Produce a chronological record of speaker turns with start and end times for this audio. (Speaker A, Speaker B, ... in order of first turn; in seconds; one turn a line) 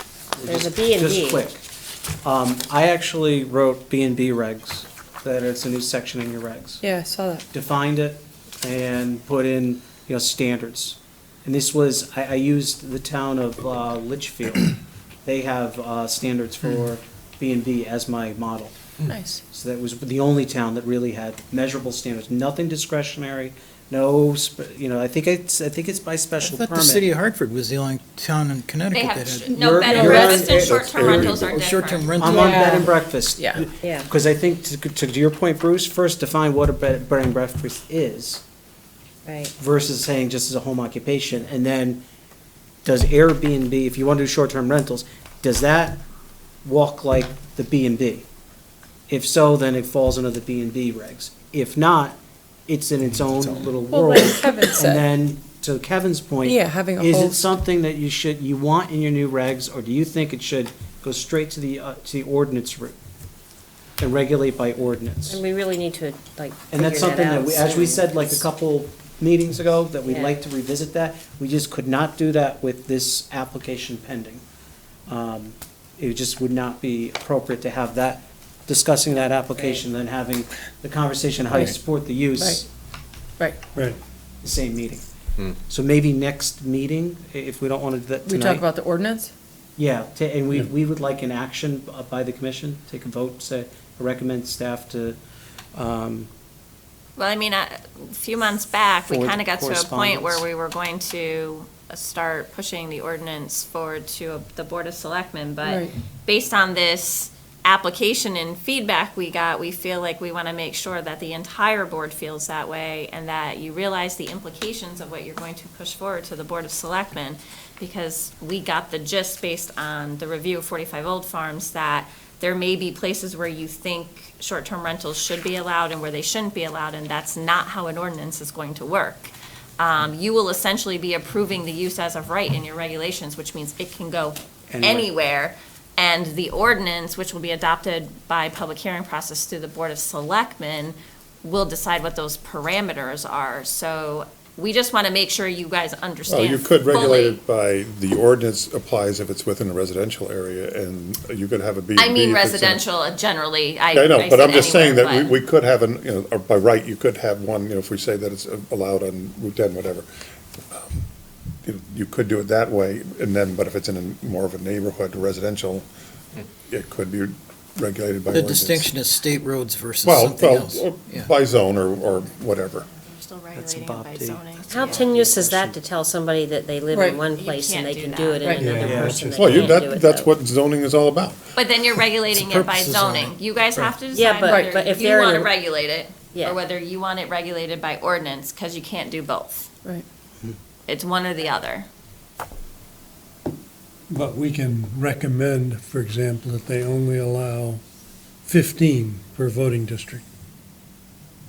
Speaker A: 0.4-1.6
Speaker B: 0.5-1.5
Speaker A: 2.2-6.8
Speaker C: 6.8-7.4
Speaker A: 7.5-18.9
Speaker C: 19.1-19.4
Speaker A: 19.5-27.1
Speaker D: 26.4-30.1
Speaker E: 28.9-32.2
Speaker A: 29.5-31.5
Speaker C: 29.9-30.4
Speaker F: 30.4-31.7
Speaker D: 30.9-32.8
Speaker A: 32.2-38.4
Speaker C: 32.2-33.7
Speaker B: 33.8-34.1
Speaker B: 39.3-39.5
Speaker A: 39.6-42.0
Speaker A: 42.9-46.0
Speaker A: 46.6-48.3
Speaker A: 49.1-52.2
Speaker A: 52.7-63.0
Speaker C: 53.9-55.1
Speaker C: 56.4-57.6
Speaker A: 64.0-65.4
Speaker B: 65.2-68.4
Speaker A: 66.7-74.4
Speaker B: 70.0-70.4
Speaker A: 75.1-82.7
Speaker B: 79.5-79.8
Speaker C: 82.3-82.7
Speaker A: 84.4-85.0
Speaker A: 85.6-88.7
Speaker C: 88.2-89.3
Speaker A: 89.8-95.2
Speaker A: 95.7-96.3
Speaker E: 97.2-147.4
Speaker A: 99.1-100.5
Speaker C: 105.6-105.9
Speaker A: 134.7-135.1
Speaker F: 146.3-152.8
Speaker E: 152.0-155.4
Speaker F: 153.9-160.1
Speaker F: 160.7-161.0
Speaker F: 161.7-165.9
Speaker F: 166.7-168.9
Speaker D: 168.3-171.3
Speaker F: 170.0-172.9
Speaker E: 172.9-175.1
Speaker A: 173.6-175.8
Speaker B: 174.7-180.3
Speaker C: 176.9-177.2
Speaker E: 177.3-178.9
Speaker C: 178.4-178.7
Speaker G: 178.6-179.4
Speaker A: 178.8-179.2
Speaker F: 179.4-181.4
Speaker E: 181.6-189.7
Speaker D: 182.3-183.8
Speaker B: 184.1-185.5
Speaker C: 184.4-184.7
Speaker E: 190.9-191.9
Speaker G: 194.1-197.8
Speaker G: 198.5-200.2